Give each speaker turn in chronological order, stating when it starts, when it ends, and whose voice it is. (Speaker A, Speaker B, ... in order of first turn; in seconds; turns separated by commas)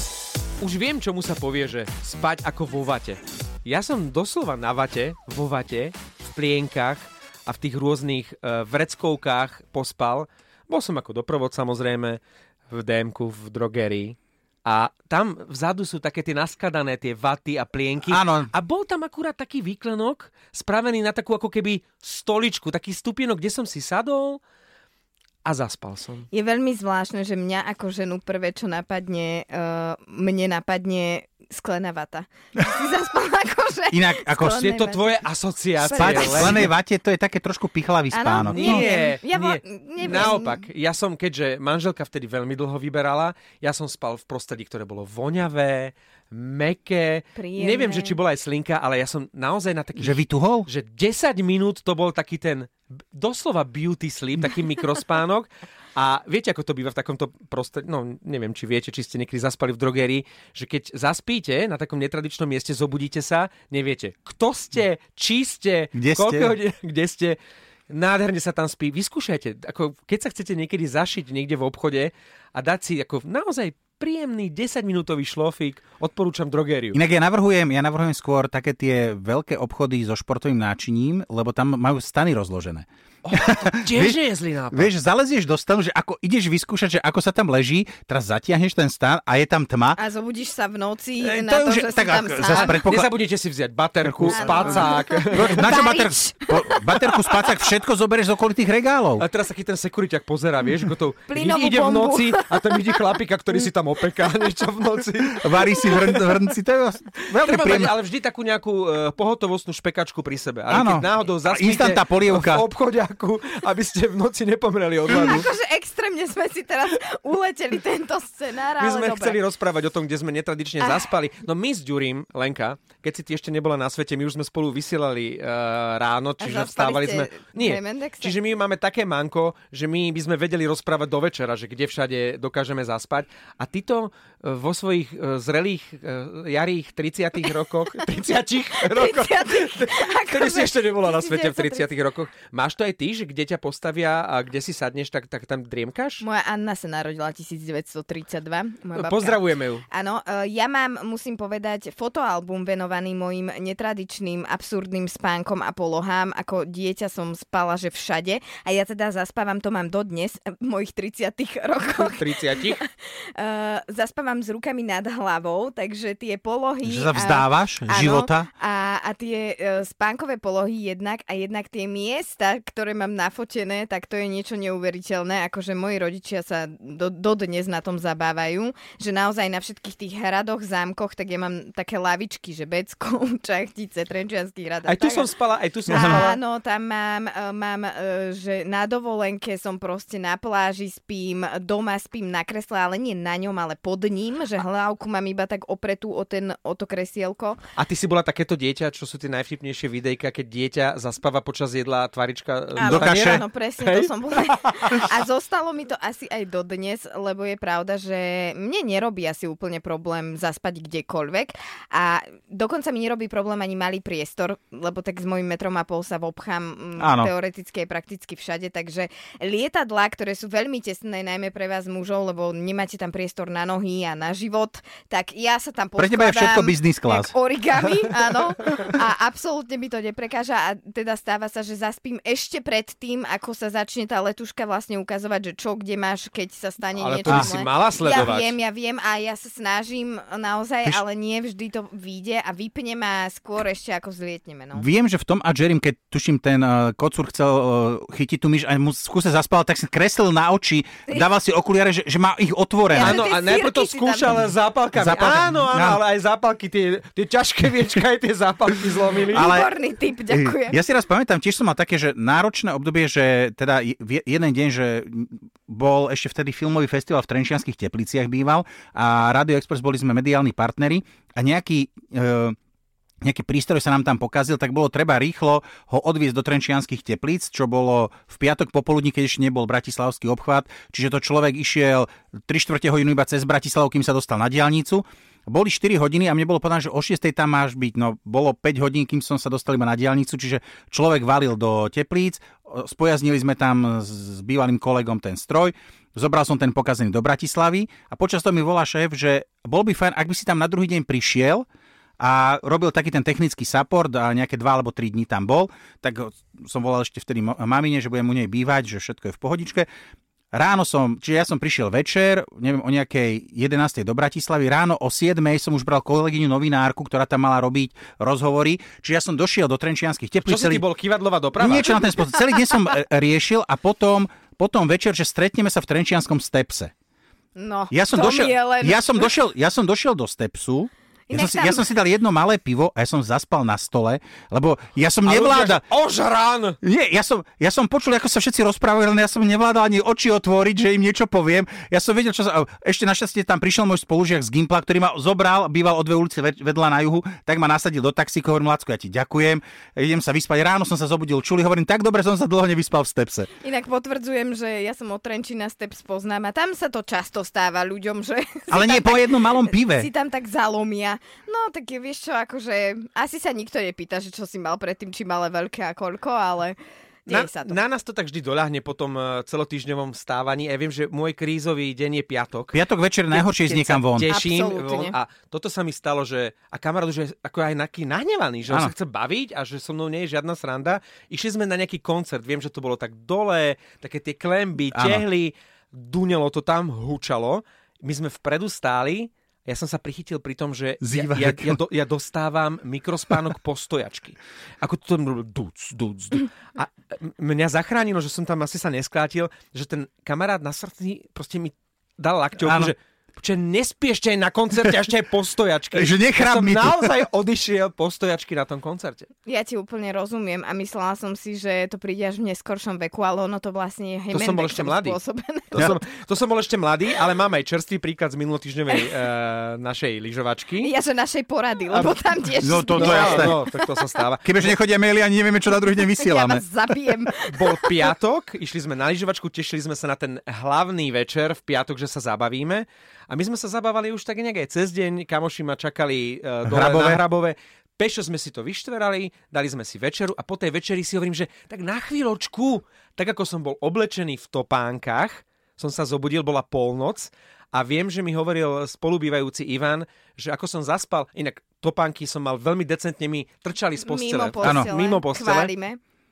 Speaker A: 0.6-24.4, Speaker B: 18.1-18.5, Speaker A: 25.4-26.3, Speaker C: 26.3-35.2, Speaker B: 33.9-34.7, Speaker A: 34.4-36.7, Speaker C: 35.8-36.7, Speaker B: 35.9-38.9, Speaker C: 38.1-40.6, Speaker A: 38.4-67.4, Speaker C: 47.4-48.2, Speaker B: 50.0-50.7, Speaker B: 65.9-66.5, Speaker A: 67.9-77.0, Speaker B: 76.9-84.2, Speaker A: 83.2-84.9, Speaker B: 84.7-90.0, Speaker C: 90.0-92.8, Speaker B: 91.2-93.1, Speaker A: 92.5-95.7, Speaker B: 94.0-99.2, Speaker C: 94.3-97.5, Speaker A: 99.2-106.5, Speaker C: 101.3-103.0, Speaker B: 105.3-107.9, Speaker A: 107.3-115.5, Speaker B: 110.7-112.7, Speaker C: 115.1-119.4, Speaker B: 115.1-115.5, Speaker A: 118.8-146.2, Speaker C: 120.8-121.1, Speaker C: 126.4-128.3, Speaker C: 138.8-141.9, Speaker C: 146.2-185.3, Speaker A: 148.9-149.8, Speaker A: 161.9-162.8, Speaker B: 166.8-168.5, Speaker A: 184.8-186.4, Speaker C: 185.9-197.6, Speaker B: 185.9-186.3, Speaker A: 197.8-205.1, Speaker C: 202.8-244.9, Speaker B: 202.8-203.4, Speaker B: 217.0-217.3, Speaker B: 226.0-227.3, Speaker A: 236.9-238.6, Speaker B: 244.7-253.3, Speaker C: 252.9-254.5, Speaker A: 252.9-259.5, Speaker B: 254.9-256.0, Speaker B: 259.3-259.7, Speaker C: 259.3-260.8, Speaker B: 260.3-272.6, Speaker B: 273.2-301.6, Speaker B: 302.2-309.9, Speaker B: 310.5-320.8, Speaker A: 320.5-322.2, Speaker B: 321.6-326.9, Speaker C: 327.5-329.3, Speaker B: 327.9-335.8, Speaker C: 331.3-331.8, Speaker A: 335.2-336.8, Speaker B: 336.8-353.5, Speaker C: 353.6-367.8, Speaker B: 358.7-360.1, Speaker A: 367.3-409.3, Speaker B: 372.7-374.4, Speaker C: 374.3-375.1, Speaker B: 384.9-385.2, Speaker B: 391.0-391.8, Speaker B: 402.6-402.9, Speaker B: 405.9-407.1, Speaker C: 409.4-415.9, Speaker A: 414.3-415.2, Speaker A: 415.7-420.9, Speaker C: 420.8-423.8, Speaker A: 421.9-422.2, Speaker B: 422.6-423.6, Speaker A: 422.9-424.8, Speaker B: 424.4-426.6, Speaker C: 426.0-428.0, Speaker A: 427.5-455.7, Speaker B: 436.6-437.2, Speaker C: 454.0-456.0, Speaker B: 454.6-454.9